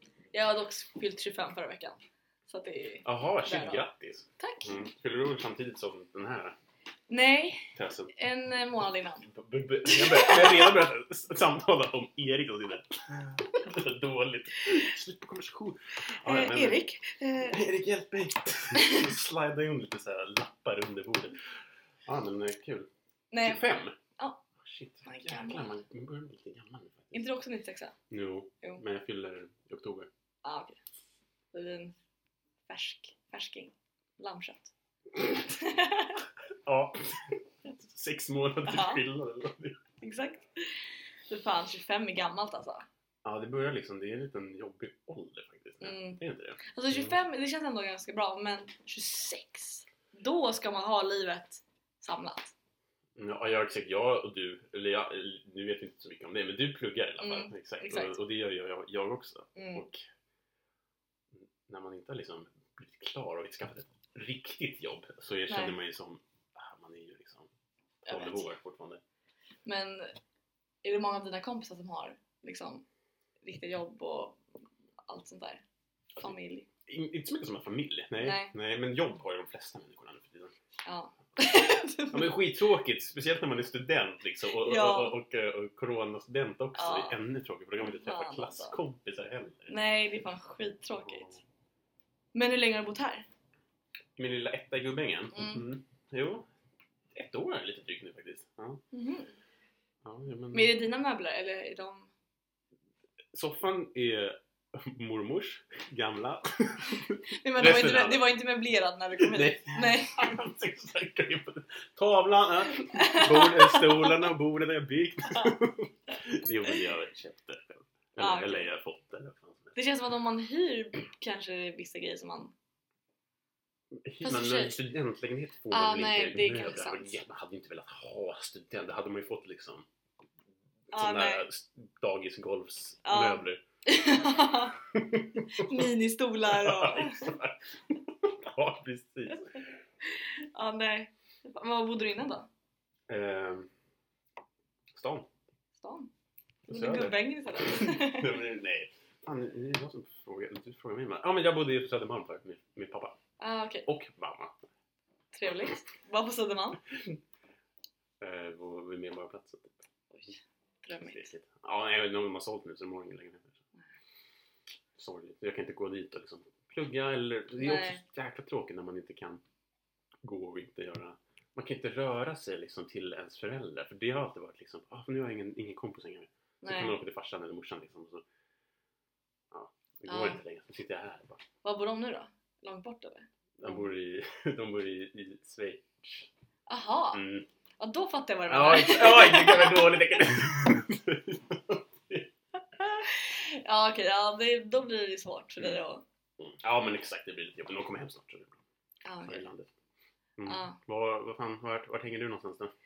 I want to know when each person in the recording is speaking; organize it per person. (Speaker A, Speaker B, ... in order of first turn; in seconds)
Speaker A: 0.3-3.9, 4.4-4.8, 7.1-9.2, 9.9-10.8, 16.2-17.6, 23.3-23.6, 24.2-24.4, 25.1-25.8, 27.1-28.0, 30.4-30.8, 31.5-31.9, 32.7-34.7, 35.4-36.2, 38.7-39.0, 40.0-40.8, 41.3-42.9, 45.8-52.5, 57.2-58.1, 59.6-59.9, 65.5-65.8, 68.0-68.5, 69.7-70.1, 70.8-72.8, 73.4-74.4, 75.1-75.6, 76.2-76.7, 78.2-78.5, 80.9-82.4, 84.6-85.1, 86.8-87.2, 87.8-88.8, 89.7-91.3, 92.3-93.3, 95.3-95.6, 98.9-99.3, 100.5-102.1, 107.4-110.3, 113.0-114.2, 118.2-118.7, 119.8-122.5, 124.2-124.8, 125.7-127.2, 130.9-131.5, 133.1-134.8, 135.6-137.3, 140.1-142.5, 145.8-146.1, 146.7-148.4, 153.4-153.9, 155.3-156.8, 160.1-161.3, 167.6-168.0, 176.6-177.0, 180.1-180.4, 181.6-183.3, 186.7-187.2, 187.8-190.3, 192.8-196.0, 199.1-199.4, 200.5-200.8
Speaker B: 3.0-6.6, 7.8-8.1, 9.2-16.8, 17.4-21.4, 22.1-22.9, 23.4-24.0, 24.6-27.2, 28.1-30.1, 36.6-39.8, 43.2-47.2, 53.2-60.0, 61.3-67.5, 68.1-69.0, 76.9-80.5, 82.1-89.7, 91.0-91.4, 94.2-96.5, 97.1-98.8, 100.0-100.8, 103.3-108.3, 109.2-119.8, 124.0-129.9, 130.9-133.6, 134.9-135.9, 136.5-139.6, 143.1-143.7, 144.9-145.3, 146.7-153.2, 153.9-154.6, 158.2-159.8, 161.0-163.6, 165.0-169.4, 170.2-178.2, 179.5-181.4, 183.6-186.3, 187.1-187.5, 188.5-192.3, 196.4-198.6, 199.2-199.7, 200.4-202.7